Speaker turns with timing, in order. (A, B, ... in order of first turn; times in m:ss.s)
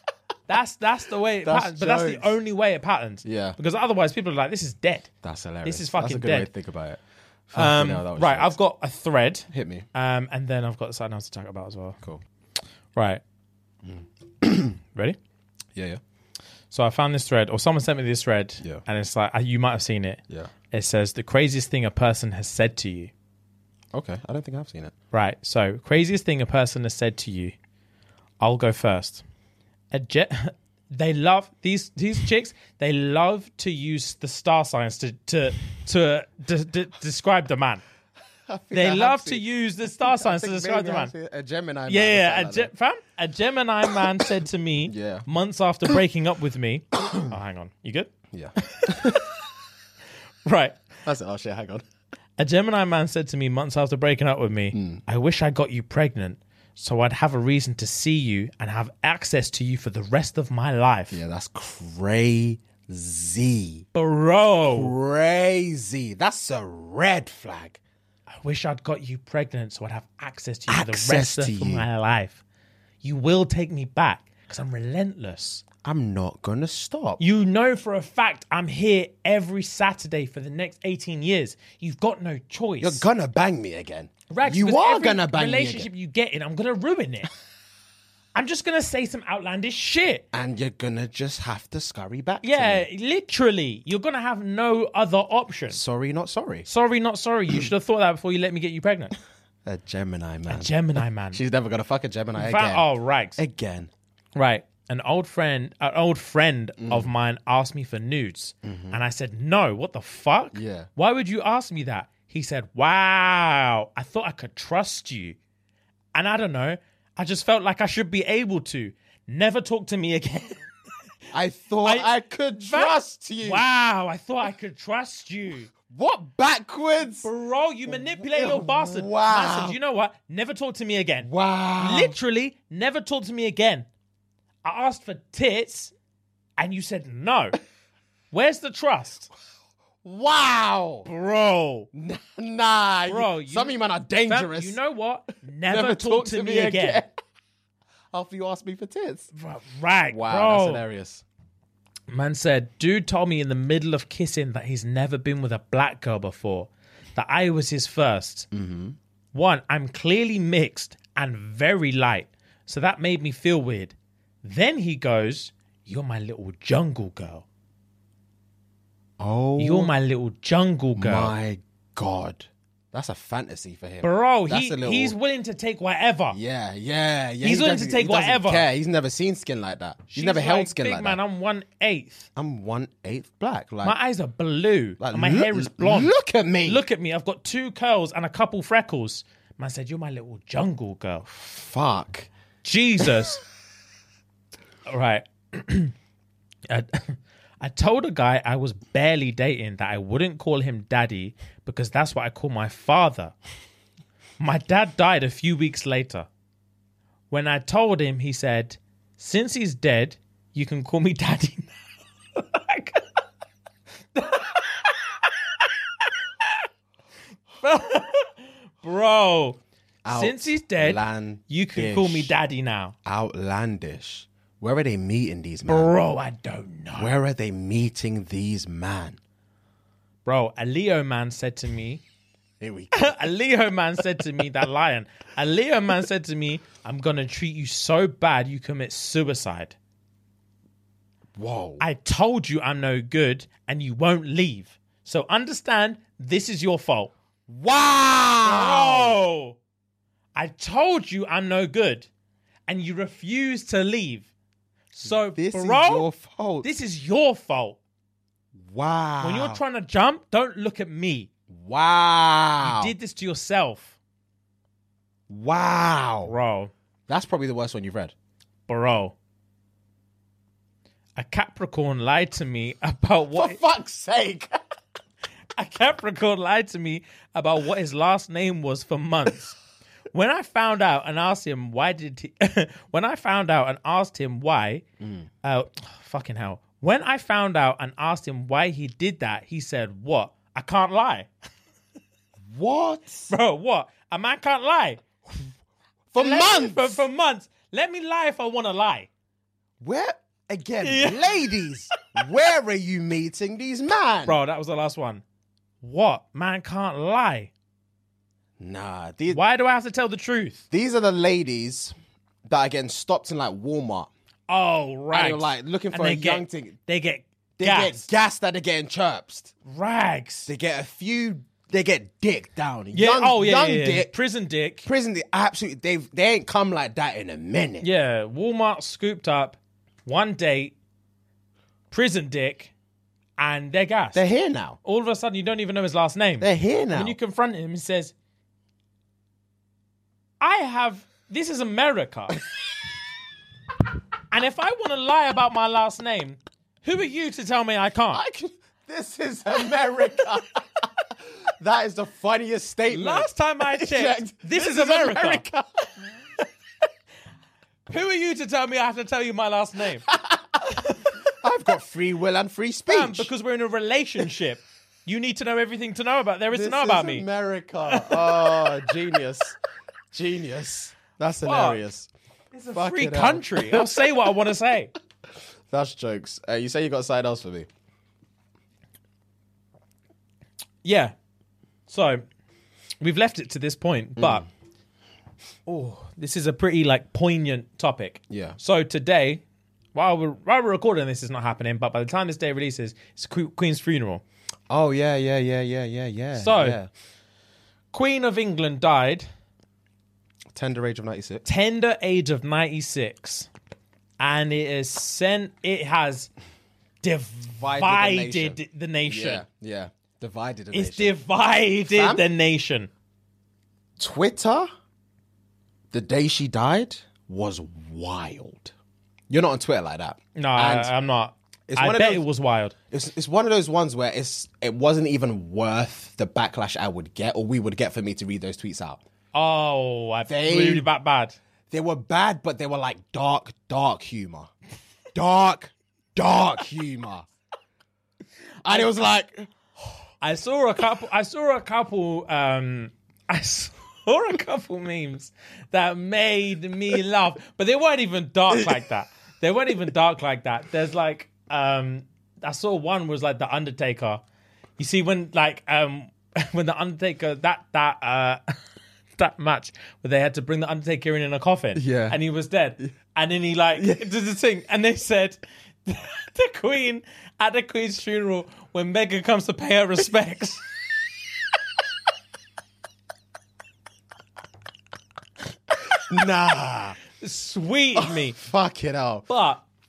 0:00.5-0:05.1 A
0:01.4-0:02.4 B
0:03.2-0:03.6 B
0:05.2-0:08.5 B
0:05.6-0:06.5 A
0:07.5-0:12.0 A
0:09.5-0:09.9 B
0:13.0-0:13.2 A
0:13.9-0:14.8 B
0:15.8-0:16.0 B
0:16.7-0:23.1 A
0:23.9-0:24.9 B
0:25.1-0:27.5 A
0:28.4-0:29.2 A
0:29.9-0:37.8 A
0:38.5-0:39.5 B
0:38.7-0:41.1 A
0:40.0-0:42.7 B
0:41.9-0:48.1 A
0:44.9-0:45.3 B
0:47.0-0:47.3 B
0:48.3-0:49.3 B
0:48.6-0:49.3 A
0:50.5-0:50.8 A
0:51.0-0:51.8 B
0:52.4-1:01.2 A
0:54.7-0:55.0 B
1:01.1-1:03.9 B
1:03.9-1:05.0 A
1:04.7-1:07.8 B
1:08.4-1:12.4 A
1:10.7-1:11.9 B
1:13.0-1:15.6 A
1:15.8-1:17.2 B
1:17.2-1:23.0 A
1:22.8-1:25.9 B
1:24.3-1:27.3 A
1:28.3-1:30.2 A
1:30.3-1:32.9 B
1:32.4-1:35.8 A
1:35.7-1:36.7 B
1:36.7-1:39.1 A
1:39.6-1:40.7 B
1:40.5-1:41.4 A
1:41.3-1:42.8 B
1:42.4-1:43.4 A
1:43.4-1:43.9 B
1:44.4-1:55.4 A
1:46.8-1:47.1 B
1:48.6-1:49.0 B
1:50.5-1:50.9 B
1:56.1-2:00.6 A
2:01.3-2:03.6 B
2:01.8-2:05.7 A
2:05.9-2:07.3 B
2:07.2-2:13.9 A
2:07.9-2:09.8 B
2:11.2-2:12.2 B
2:14.6-2:15.9 A
2:16.6-2:17.6 A
2:18.3-2:19.3 A
2:20.0-2:21.1 B
2:21.1-2:21.9 A
2:21.9-2:24.8 B
2:23.1-2:27.0 A
2:25.7-2:27.1 B
2:28.1-2:29.3 B
2:29.3-2:30.8 A
2:30.1-2:31.2 B
2:32.1-2:38.5 A
2:38.5-2:39.0 B
2:39.3-2:47.4 A
2:49.2-2:49.9 B
2:49.6-2:51.3 A
2:51.0-2:55.2 B
2:54.0-2:56.4 A
2:56.3-3:01.2 B
2:57.4-2:58.7 A
3:00.1-3:02.3 A
3:02.4-3:04.0 B
3:03.8-3:06.1 A
3:05.0-3:06.8 B
3:06.7-3:11.4 A
3:11.4-3:12.3 B
3:12.6-3:13.4 A
3:14.9-3:16.0 A
3:16.7-3:23.3 A
3:24.4-3:26.3 A
3:27.3-3:31.8 A
3:32.4-3:33.0 A
3:34.2-3:35.0 A
3:37.6-3:43.0 A
3:40.0-3:42.3 B
3:43.0-3:46.0 B
3:45.7-3:47.1 A
3:47.0-3:49.2 B
3:50.2-3:52.0 A
3:52.6-3:53.2 B
3:52.9-3:59.8 A
4:01.4-4:01.8 B
4:01.8-4:07.1 A
4:07.5-4:09.2 B
4:08.4-4:09.6 A
4:10.4-4:12.1 A
4:12.7-4:14.3 A
4:14.9-4:16.1 A
4:15.0-4:16.7 B
4:16.6-4:17.8 A
4:18.6-4:19.6 B
4:19.2-4:21.3 A
4:21.5-4:22.9 B
4:22.6-4:24.0 A
4:25.3-4:26.3 B
4:26.3-4:26.7 A
4:27.1-4:28.1 B
4:28.7-4:29.2 A
4:31.2-4:33.6 A
4:33.3-4:34.5 B
4:35.6-4:39.6 A
4:40.1-4:44.8 A
4:45.0-4:45.3 B
4:45.4-4:51.3 A
4:52.5-4:53.3 B
4:53.3-4:55.0 A
4:56.1-4:57.0 B
4:56.2-4:59.1 A
4:59.8-5:04.4 B
5:00.8-5:01.9 A
5:04.2-5:05.2 A
5:05.8-5:07.5 A
5:08.6-5:09.4 B
5:09.3-5:10.6 A
5:10.7-5:12.0 B
5:12.5-5:14.1 B
5:14.5-5:18.1 A
5:15.1-5:16.8 B
5:17.6-5:19.5 B
5:19.7-5:20.5 A
5:20.5-5:24.1 B
5:22.9-5:24.9 A
5:24.8-5:27.9 B
5:27.8-5:30.7 A
5:31.9-5:32.7 A
5:33.4-5:34.2 A
5:34.1-5:34.8 B
5:34.8-5:38.1 A
5:36.4-5:37.2 B
5:40.4-5:42.4 A
5:44.3-5:48.2 A
5:48.1-5:50.8 B
5:51.6-5:55.9 B
5:52.9-5:55.5 A
5:57.9-6:00.1 A
6:00.1-6:00.7 B
6:01.4-6:03.3 B
6:02.9-6:07.3 A
6:06.5-6:09.6 B
6:07.9-6:08.8 A
6:10.1-6:12.1 B
6:11.4-6:11.8 A
6:12.5-6:14.9 A
6:12.7-6:14.1 B
6:15.7-6:17.7 B
6:20.8-6:21.1 A
6:21.9-6:22.2 A
6:23.0-6:24.5 A
6:24.2-6:24.5 B
6:25.7-6:29.4 A
6:28.3-6:28.6 B
6:29.9-6:34.2 A
6:34.7-6:36.9 B
6:36.4-6:36.8 A
6:37.9-6:39.3 A
6:40.5-6:41.5 B
6:41.4-6:43.5 A
6:44.2-6:46.3 A
6:47.0-6:49.4 A
6:47.6-6:51.2 B
6:50.7-6:52.9 A
6:51.9-6:52.2 B
6:54.0-6:54.7 B
6:55.9-6:58.7 B
6:59.3-7:00.9 B
7:00.4-7:02.8 A
7:01.7-7:02.2 B
7:02.9-7:09.0 B
7:09.3-7:11.4 A
7:10.3-7:10.9 B
7:11.7-7:14.5 B
7:15.1-7:17.3 B
7:18.6-7:19.5 B
7:18.7-7:18.9 A
7:20.2-7:34.2 A
7:34.8-7:38.4 A
7:39.2-7:50.6 A
7:41.8-7:42.2 B
7:43.8-7:44.0 B
7:56.1-7:57.0 B
7:57.2-7:58.4 A
7:58.0-7:59.3 B
7:59.3-7:59.6 A